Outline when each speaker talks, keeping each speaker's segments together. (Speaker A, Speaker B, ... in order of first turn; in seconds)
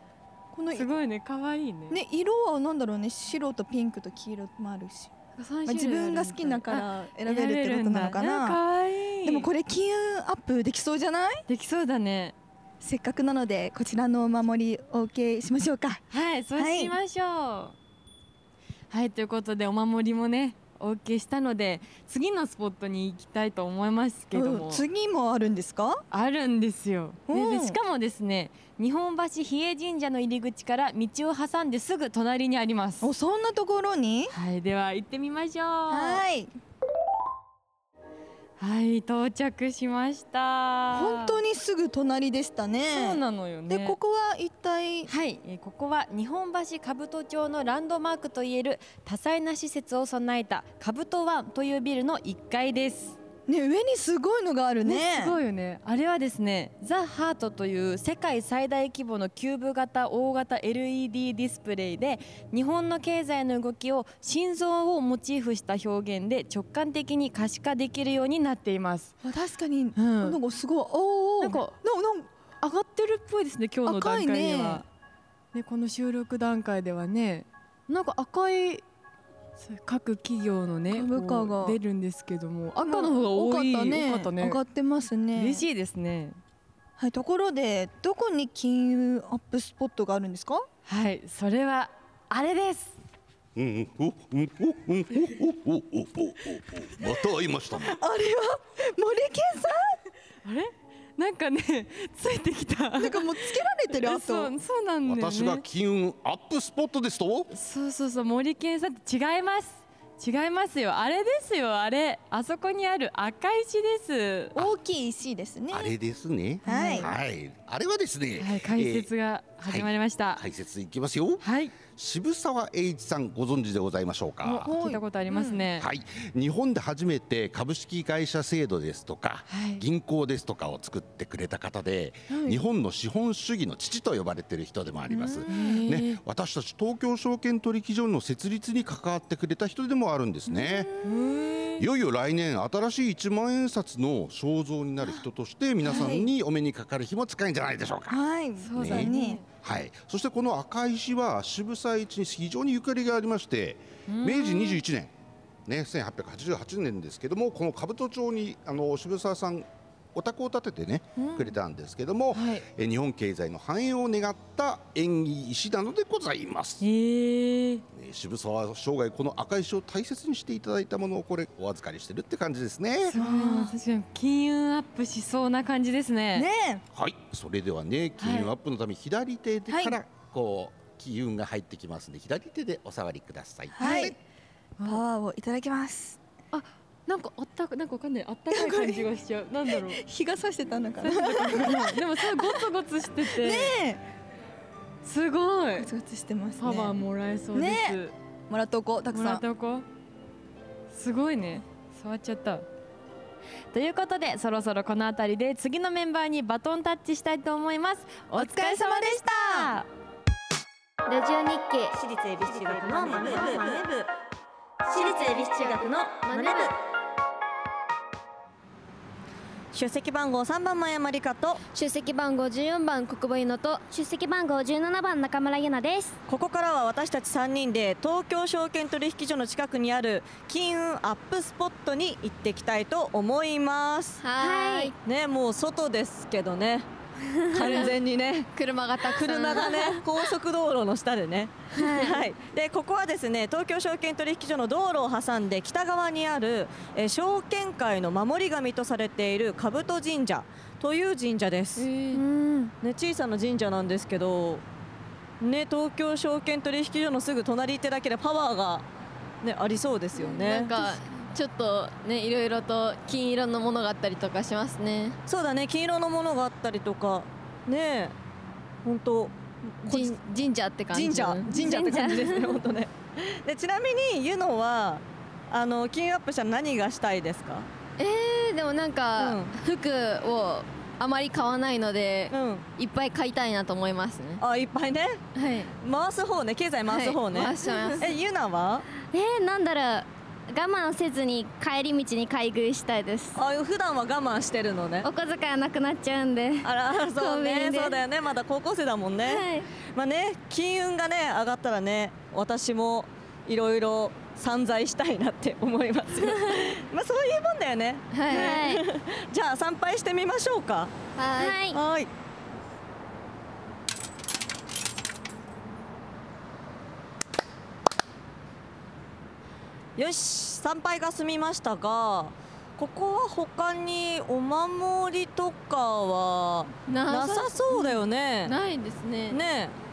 Speaker A: 0.5-0.9, 1.9-5.1, 5.7-8.6, 9.2-11.4, 12.8-16.0, 16.6-16.9, 24.3-26.0, 27.3-27.8, 33.0-34.3, 35.9-36.5, 40.9-45.1, 53.5-55.4, 69.2-72.3, 73.8-74.8, 80.9-81.8, 82.8-85.6, 87.0-90.7, 97.9-100.0, 103.0-104.5, 114.5-115.9, 116.6-117.1, 124.6-125.6, 135.1-135.8, 140.5-141.1, 145.8-146.3, 148.1-149.4, 173.2-173.7, 176.3-176.8, 179.7-180.0, 183.8-184.2, 184.8-186.2, 188.5-189.0, 189.7-192.6, 193.2-194.0, 195.8-197.0, 197.5-199.4, 208.3-209.7
Speaker B: 0.7-2.0, 5.4-9.5, 11.5-12.3, 16.1-17.8, 18.9-24.8, 26.1-33.1, 34.3-36.2, 38.6-41.4, 42.9-44.0, 45.1-53.2, 54.8-69.1, 70.0-70.4, 71.4-71.8, 72.6-74.8, 75.5-78.8, 79.6-84.6, 85.3-86.4, 90.8-92.9, 100.4-105.6, 107.5-114.6, 116.6-117.1, 118.4-120.4, 121.4-121.8, 124.4-125.8, 129.5-129.8, 135.5-136.2, 141.0-141.8, 148.6-149.4, 154.1-154.8, 161.2-161.5, 162.3-162.6, 166.8-167.8, 173.1-176.5, 178.2-178.5, 183.8-184.1, 186.5-190.0, 191.0-193.8, 195.0-195.9, 196.6-198.1, 199.1-199.8, 200.9-202.7, 203.7-209.9
Speaker C: 93.5-98.0, 105.0-107.5, 115.7-119.1, 119.6-124.7, 125.8-140.9, 141.8-148.2, 148.8-155.1, 155.7-166.8, 167.9-173.2, 176.9-184.1
Speaker D: 211.1-212.0, 213.2-213.8, 214.9-216.7, 223.9-226.2, 234.4-234.9, 252.2-252.7, 289.0-293.4, 295.0-298.0, 299.2-299.7, 308.3-308.8, 311.3-311.8
Speaker E: 211.9-214.1, 214.9-216.8, 219.7-221.6, 226.3-234.3, 235.0-236.9, 237.5-251.9, 252.8-254.6, 255.4-258.9, 259.4-260.9, 265.3-268.1, 268.8-270.2, 270.9-277.7, 279.2-279.6, 282.3-282.6, 284.4-285.2, 285.8-288.9, 293.3-295.1, 296.6-312.1, 319.9-328.6, 329.3-329.8
Speaker F: 221.8-223.8, 234.2-234.9, 237.5-237.9, 238.5-240.0, 241.8-242.2, 251.8-252.2, 260.1-265.2, 269.9-272.4, 278.0-284.4, 285.3-285.7, 286.9-288.1, 308.1-308.7, 311.2-311.6, 326.9-329.4